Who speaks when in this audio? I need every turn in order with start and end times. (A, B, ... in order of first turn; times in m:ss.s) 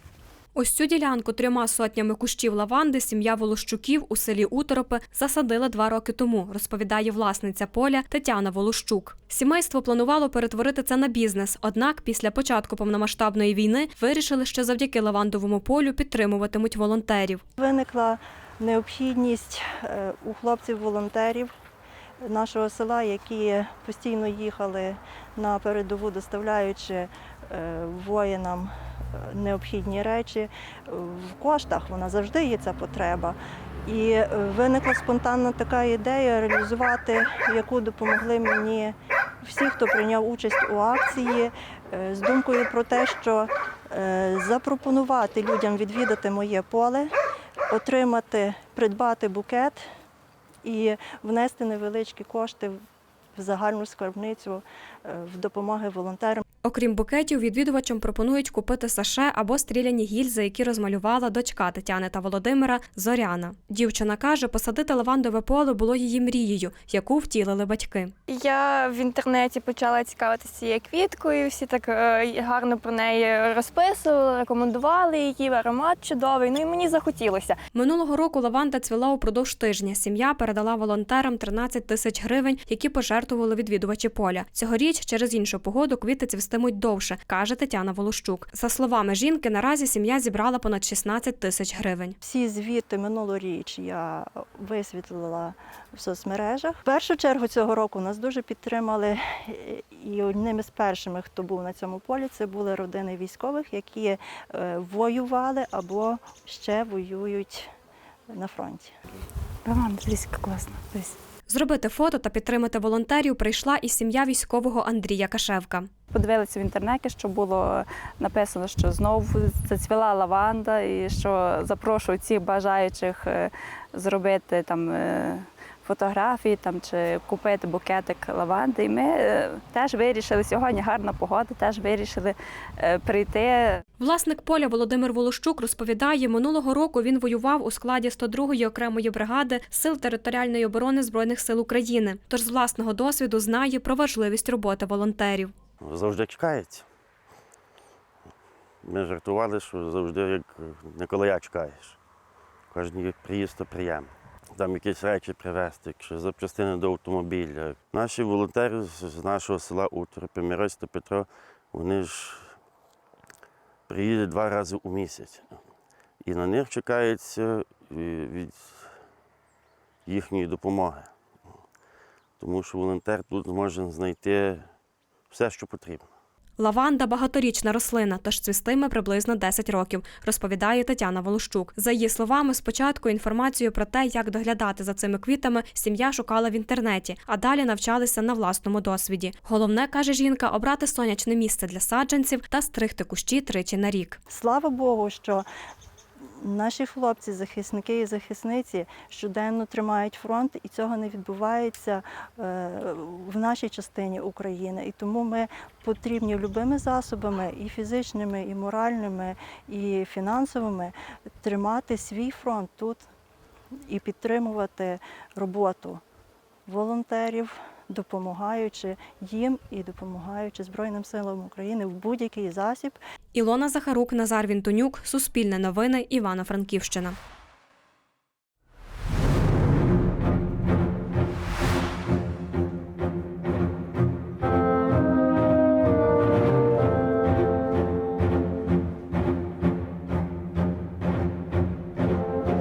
0:00.5-0:17.4 A
0:17.6-0:21.5 B
0:22.2-0:47.1 B
0:47.7-0:49.8 B
0:50.6-0:52.8 B
0:53.3-0:56.4 B
0:56.6-1:08.1 A
1:08.3-1:17.5 C
1:17.7-1:32.2 A
1:32.2-1:47.7 B
1:48.3-1:48.9 B
1:49.6-1:51.1 D
1:51.5-1:55.9 A
1:56.1-2:13.8 D
2:14.0-2:25.5 A
2:25.8-2:26.8 E
2:28.8-2:32.0 E
2:32.7-2:42.5 E
2:43.9-2:45.5 E
2:46.2-2:48.8 E
2:50.1-2:51.1 E
2:52.4-2:54.6 E
2:55.3-2:56.1 E
2:56.6-3:14.2 A
3:14.3-3:15.4 B
3:16.4-3:33.0 B
3:33.9-3:36.0 B
3:36.7-3:43.0 B
3:43.3-3:47.2 A